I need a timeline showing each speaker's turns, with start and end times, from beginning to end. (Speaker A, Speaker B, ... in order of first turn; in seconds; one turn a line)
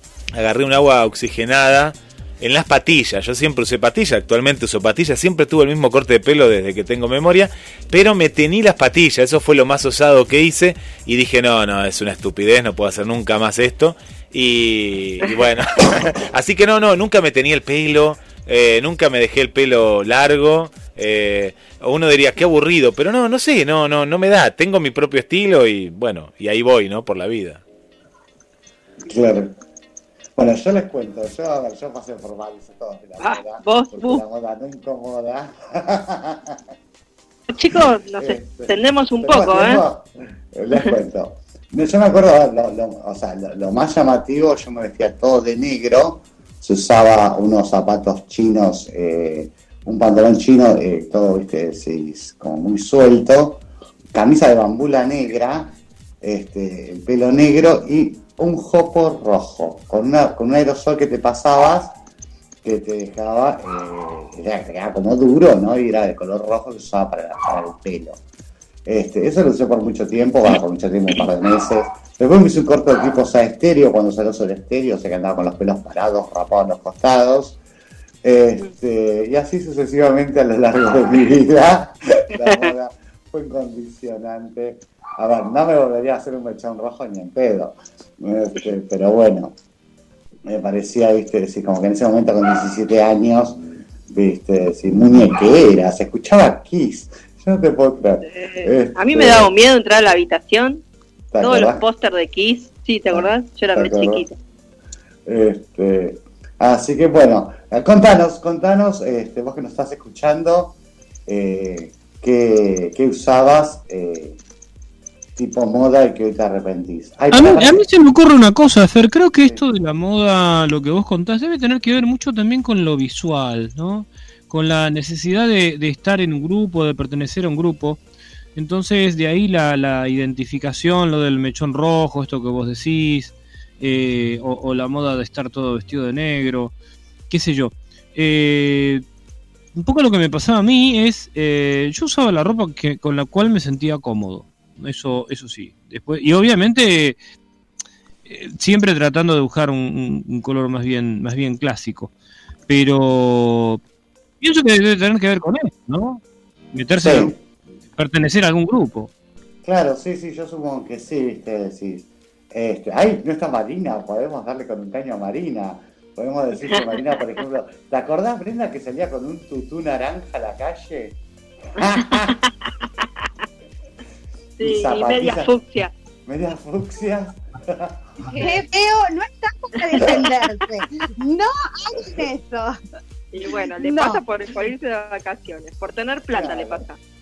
Speaker A: 0.3-27.6
Speaker B: 29.1-29.6
Speaker B: 30.4-36.6
Speaker C: 33.2-34.2
Speaker C: 37.5-39.9
Speaker B: 38.1-62.0
Speaker B: 62.6-68.2
Speaker B: 68.9-77.6
Speaker B: 78.2-89.5
Speaker C: 82.4-82.7
Speaker B: 90.5-99.5
Speaker C: 98.3-100.8
Speaker B: 101.3-101.8
Speaker C: 101.4-104.4
Speaker B: 103.1-104.2
Speaker B: 105.3-110.8
Speaker B: 111.3-114.4
Speaker B: 115.4-117.8
Speaker D: 117.3-128.0
Speaker D: 128.6-136.7
Speaker D: 137.3-139.0
Speaker D: 139.8-147.2
Speaker D: 148.3-152.1
Speaker D: 152.7-153.8
Speaker D: 154.4-156.2
Speaker D: 156.7-157.3
Speaker B: 157.0-157.4
Speaker D: 158.0-159.1
Speaker B: 159.6-171.2
Speaker C: 166.7-167.0
Speaker B: 171.8-172.4
Speaker C: 172.2-172.7
Speaker C: 174.6-175.9
Speaker B: 174.6-175.5
Speaker B: 176.3-178.6
Speaker E: 178.3-182.8
Speaker C: 183.3-187.0
Speaker E: 183.8-184.2
Speaker B: 186.3-186.9